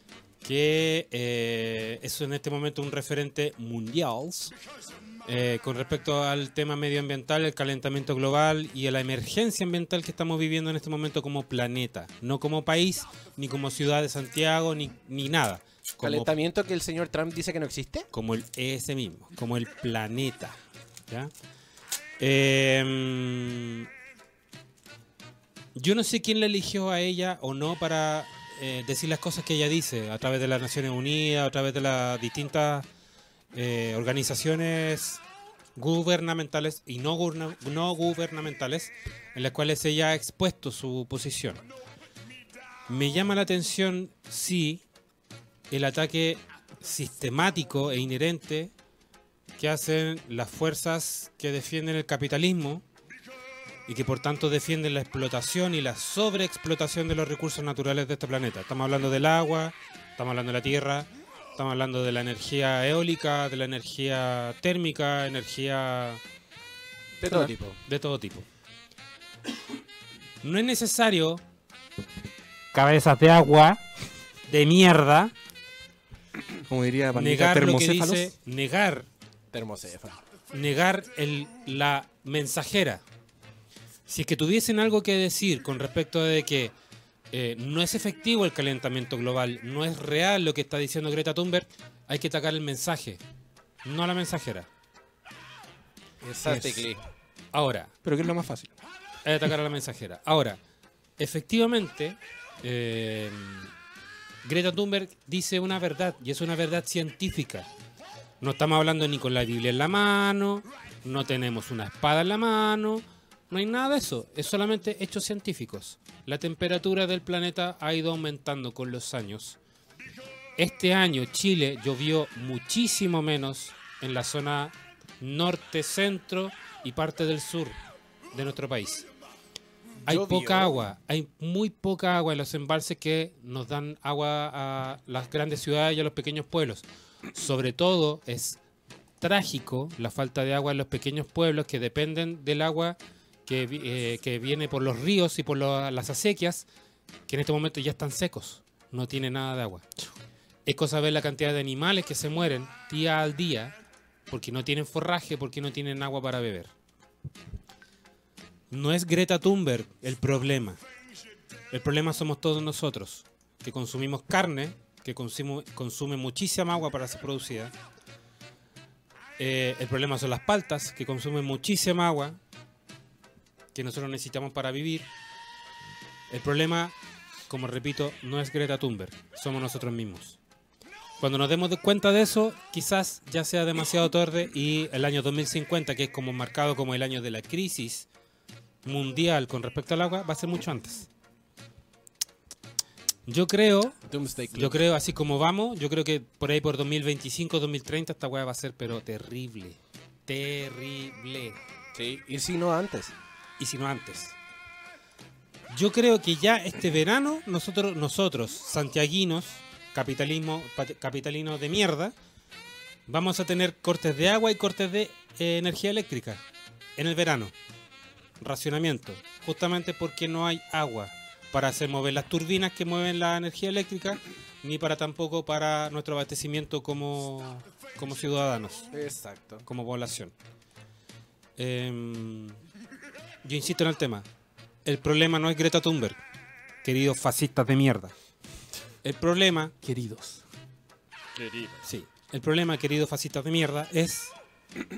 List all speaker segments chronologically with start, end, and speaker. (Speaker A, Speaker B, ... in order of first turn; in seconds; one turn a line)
Speaker A: 0.4-4.5
Speaker A: 5.2-16.3
Speaker B: 16.0-18.1
Speaker A: 18.1-20.6
Speaker A: 22.2-23.9
Speaker A: 25.7-32.9
Speaker A: 33.5-35.2
Speaker A: 35.8-41.6
Speaker A: 42.9-44.8
Speaker A: 45.7-48.7
Speaker A: 49.6-52.8
Speaker A: 53.9-66.2
Speaker B: 67.2-67.8
Speaker A: 67.9-68.5
Speaker A: 70.4-71.4
Speaker A: 72.7-73.8
Speaker A: 74.5-75.3
Speaker C: 76.7-78.3
Speaker A: 77.1-79.1
Speaker B: 79.5-80.2
Speaker A: 80.5-83.0
Speaker A: 84.1-86.7
Speaker A: 87.3-93.2
Speaker A: 93.8-94.7
Speaker B: 96.2-97.0
Speaker C: 96.4-96.9
Speaker A: 97.5-97.9
Speaker C: 98.0-98.7
Speaker A: 99.2-100.6
Speaker A: 101.2-103.7
Speaker A: 104.4-107.7
Speaker A: 108.4-119.6
Speaker A: 120.6-127.8
Speaker A: 128.3-129.1
Speaker B: 130.1-130.8
Speaker A: 130.1-138.6
Speaker A: 139.2-146.7
Speaker A: 147.3-149.8
Speaker A: 150.7-153.8
Speaker A: 154.3-156.7
Speaker A: 158.7-160.8
Speaker A: 161.7-167.7
Speaker A: 169.4-172.4
Speaker A: 173.7-175.1
Speaker A: 176.3-176.9
Speaker A: 177.5-180.4
Speaker A: 181.2-188.1
Speaker A: 188.8-191.1
Speaker A: 193.3-193.9
Speaker B: 194.1-194.8
Speaker A: 194.5-201.6
Speaker B: 201.9-203.1
Speaker A: 203.6-204.3
Speaker A: 205.7-212.1
Speaker A: 213.1-216.4
Speaker A: 217.0-217.5
Speaker A: 218.4-228.8
Speaker B: 228.9-229.7
Speaker A: 229.7-230.3
Speaker A: 231.6-232.6
Speaker A: 233.4-234.2
Speaker A: 234.8-236.2
Speaker A: 236.8-238.1
Speaker A: 239.0-239.7
Speaker C: 239.8-240.4
Speaker B: 241.3-241.8
Speaker A: 241.8-244.3